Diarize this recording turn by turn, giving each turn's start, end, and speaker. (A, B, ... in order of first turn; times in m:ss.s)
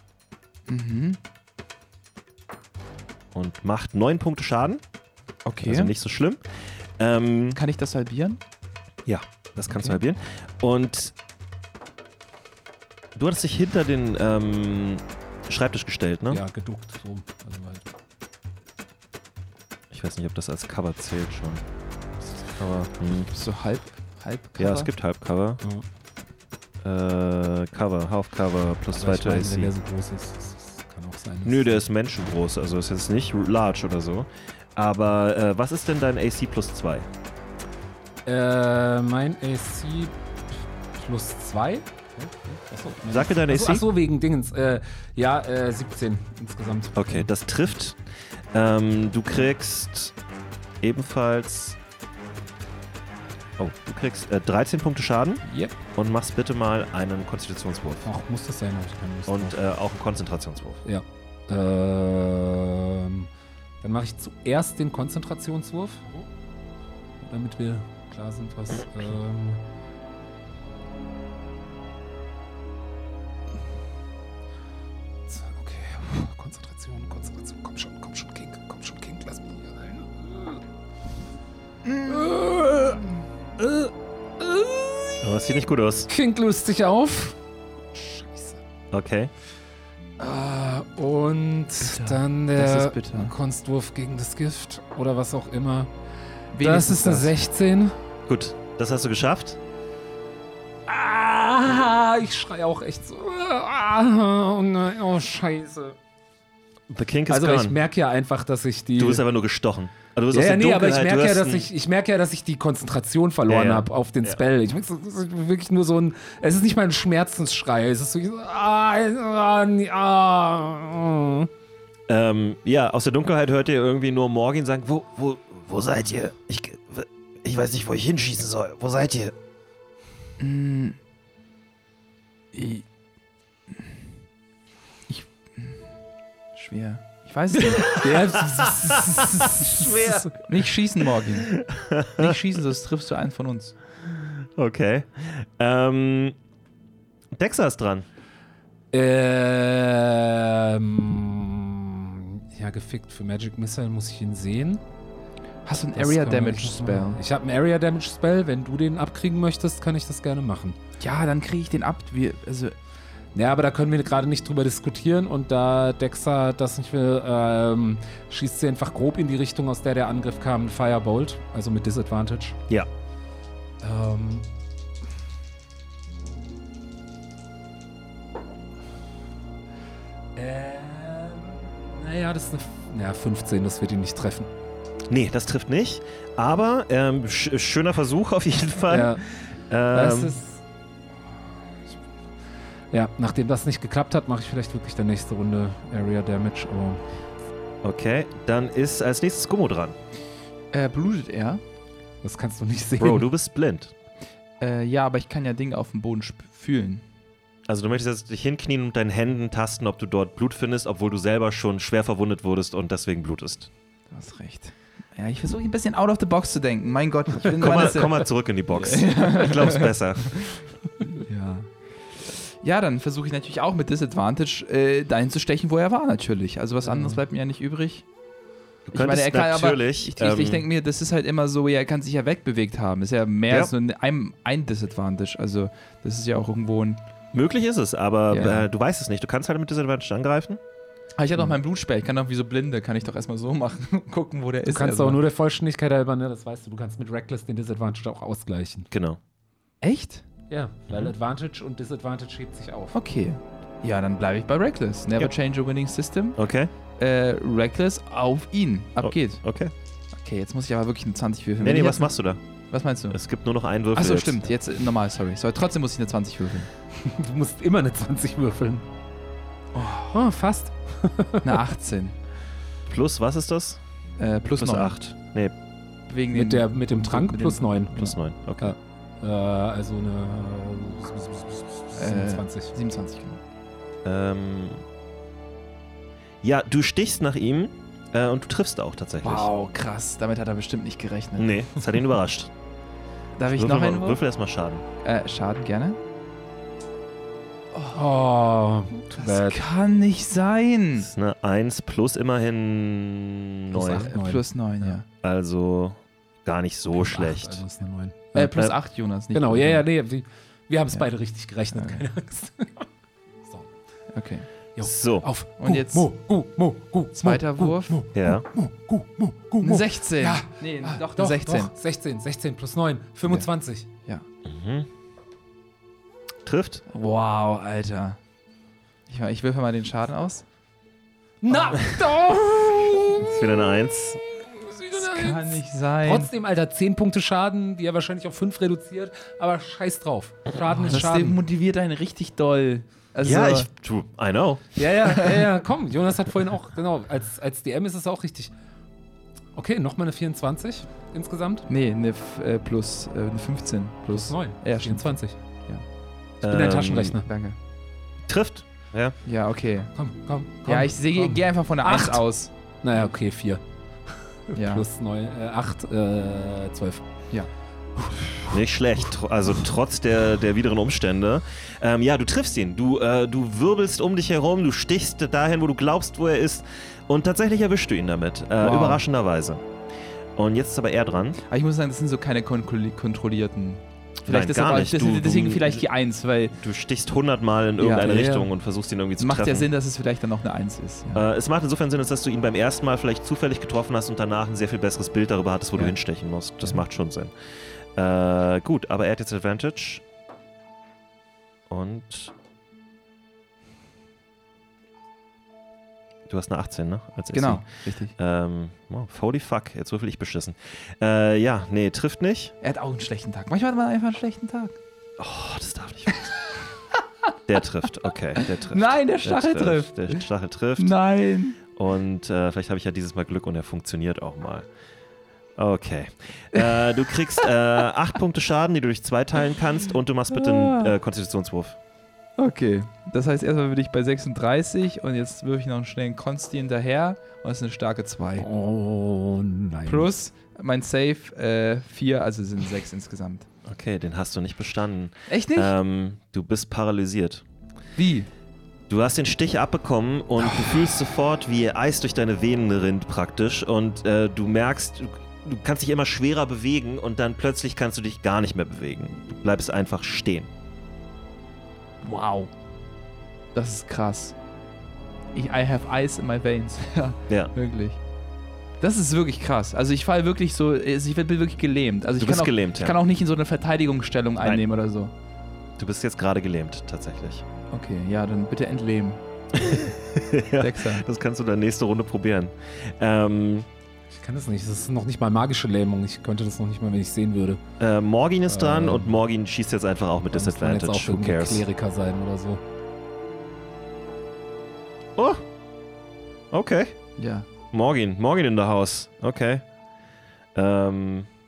0:00.7-0:01.2 A
0:03.3-0:04.8 B
0:05.4-0:05.9 A
0:05.6-0:06.4 B
0:07.0-0:07.6 B
0:07.6-0:08.4 A
0:09.0-0:11.1 B
0:13.2-0:16.4 B
0:16.3-0:17.8 C
0:19.9-0:21.6 B
0:22.4-0:23.3 B
0:23.3-0:24.9 A
0:24.6-0:25.6 B
0:26.8-0:29.7 B
0:28.9-0:31.8 C
0:31.4-0:37.1 B
0:38.2-0:40.1 C
0:40.9-0:47.3 C
0:43.1-0:43.9 B
0:46.9-0:48.0 B
0:48.5-0:50.1 B
0:50.8-0:51.8 B
0:53.6-0:55.4 B
0:55.5-0:55.7 C
0:55.9-0:58.0 B
0:58.0-0:59.6 C
0:59.3-1:00.8 B
1:00.8-1:03.3 C
1:03.8-1:06.2 C
1:07.2-1:09.6 C
1:15.3-1:20.6 C
1:21.8-1:22.3 A
1:22.0-1:25.3 C
1:25.2-1:26.1 B
1:26.1-1:27.4 C
1:27.9-1:28.6 C
1:28.9-1:29.3 B
1:30.2-1:35.9 C
1:31.8-1:33.3 A
1:36.5-1:37.3 A
1:36.6-1:37.9 C
1:38.3-1:39.6 B
1:40.9-1:46.0 C
1:46.9-1:47.8 B
1:47.3-1:49.2 C
1:49.0-1:51.7 B
1:50.3-2:01.5 C
1:53.5-1:54.4 B
2:02.1-2:09.3 B
2:10.4-2:11.0 A
2:12.5-2:12.8 A
2:15.1-2:15.8 A
2:16.5-2:18.0 A
2:17.8-2:20.3 B
2:17.8-2:20.3 C
2:20.4-2:21.6 A
2:21.5-2:22.4 B
2:22.1-2:23.7 A
2:24.2-2:26.3 B
2:27.3-2:28.0 B
2:28.9-2:34.8 C
2:35.6-2:37.2 A
2:36.0-2:40.8 C
2:41.0-2:42.8 A
2:43.3-2:52.6 C
2:53.8-2:54.5 C
3:00.4-3:04.5 C
3:05.1-3:09.2 B
3:08.9-3:09.2 C
3:09.7-3:10.4 B
3:09.9-3:10.6 C
3:12.9-3:17.0 C
3:17.8-3:20.0 B
3:20.7-3:21.6 A
3:22.2-3:23.3 C
3:23.0-3:23.9 B
3:24.6-3:27.0 A
3:27.7-3:33.7 B
3:34.1-3:40.6 A
3:37.6-3:40.5 B
3:41.1-3:41.7 A
3:42.6-3:48.0 A
3:46.8-3:47.2 C
3:48.9-3:50.7 B
3:48.9-3:57.0 A
3:57.3-4:00.6 B
3:58.3-3:58.7 A
4:01.2-4:05.2 A
4:04.7-4:08.9 C
4:08.9-4:09.2 B
4:09.8-4:10.2 A
4:10.5-4:13.0 C
4:12.9-4:16.4 A
4:16.4-4:16.7 B
4:17.0-4:19.4 A
4:19.0-4:19.7 B
4:20.2-4:22.1 A
4:21.6-4:22.4 B
4:22.7-4:23.2 A
4:23.1-4:24.4 B
4:23.9-4:26.7 A
4:27.0-4:28.8 C
4:29.7-4:30.2 A
4:30.1-4:31.6 C
4:31.4-4:32.1 A
4:32.9-4:33.8 B
4:34.2-4:35.0 A
4:34.6-4:35.5 B
4:36.1-4:37.8 A
4:36.3-4:42.7 C
4:37.9-4:38.7 B
4:42.0-4:43.4 A
4:44.0-4:44.8 B
4:46.4-4:49.5 B
4:49.2-4:51.6 A
4:51.4-4:52.5 B
4:53.4-4:54.2 A
4:53.5-4:54.8 B
4:55.0-4:56.0 A
4:57.7-4:58.0 A
4:57.9-4:59.6 C
4:59.1-5:01.1 A
5:01.0-5:04.1 B
5:03.7-5:05.0 C
5:03.8-5:05.0 A
5:05.2-5:07.6 B
5:06.9-5:08.4 C
5:08.3-5:09.8 A
5:08.4-5:08.7 B
5:09.3-5:12.9 C
5:11.7-5:12.0 A
5:14.1-5:14.5 A
5:14.8-5:23.9 C
5:14.8-5:15.3 B
5:15.6-5:16.1 A
5:17.1-5:18.0 A
5:18.1-5:18.4 B
5:19.6-5:21.7 A
5:24.4-5:24.9 B
5:26.4-5:26.8 B
5:26.9-5:28.2 A
5:29.1-5:30.4 A
5:31.4-5:33.4 C
5:31.5-5:31.8 A
5:33.2-5:34.2 B
5:34.5-5:41.4 C
5:34.9-5:36.3 A
5:40.7-5:43.7 A
5:43.2-5:44.8 B
5:44.8-5:48.5 C
5:49.6-5:51.6 C
5:51.7-5:55.8 A
5:54.1-5:55.3 C
5:56.4-5:57.2 B
5:56.4-5:57.2 C
5:57.2-5:57.6 A
5:58.3-5:59.1 B
5:59.2-5:59.9 A
5:59.9-6:02.2 C
6:00.6-6:02.5 A
6:02.8-6:03.6 C
6:04.5-6:07.1 C
6:04.6-6:04.8 A
6:08.5-6:19.6 B
6:18.6-6:19.0 A
6:20.4-6:21.4 B
6:21.5-6:26.6 A
6:24.2-6:25.8 B
6:26.6-6:29.7 B
6:27.8-6:28.4 A
6:28.1-6:28.4 C
6:29.2-6:31.2 A
6:31.1-6:37.3 B
6:37.9-6:40.0 B
6:41.7-6:42.3 B
6:46.3-6:47.6 B
6:47.3-6:48.1 A
6:48.2-6:52.5 B
6:52.6-6:54.8 A
6:55.2-6:56.3 B
6:57.5-7:00.9 B
6:58.4-7:00.2 A
7:00.8-7:01.6 A
7:01.7-7:04.7 B
7:05.6-7:11.8 B
7:06.5-7:07.5 A
7:10.3-7:11.0 A
7:12.4-7:18.5 A
7:18.4-7:20.1 C
7:19.9-7:23.5 A
7:23.6-7:27.4 B
7:25.3-7:25.7 A
7:28.0-7:28.3 A
7:28.9-7:40.5 B
7:42.0-7:42.5 A
7:43.5-7:44.4 A
7:45.3-7:48.0 A
7:48.8-7:55.1 A
7:52.2-7:53.0 B
7:55.8-7:57.4 B
7:57.7-7:59.2 A
7:59.5-8:03.7 B
8:00.6-8:01.0 A
8:04.1-8:07.6 C
8:07.8-8:11.6 B
8:08.5-8:09.2 C
8:10.3-8:12.6 C
8:15.2-8:15.4 B
8:16.5-8:17.0 B
8:17.2-8:17.5 A
8:17.7-8:19.6 B
8:20.5-8:21.3 B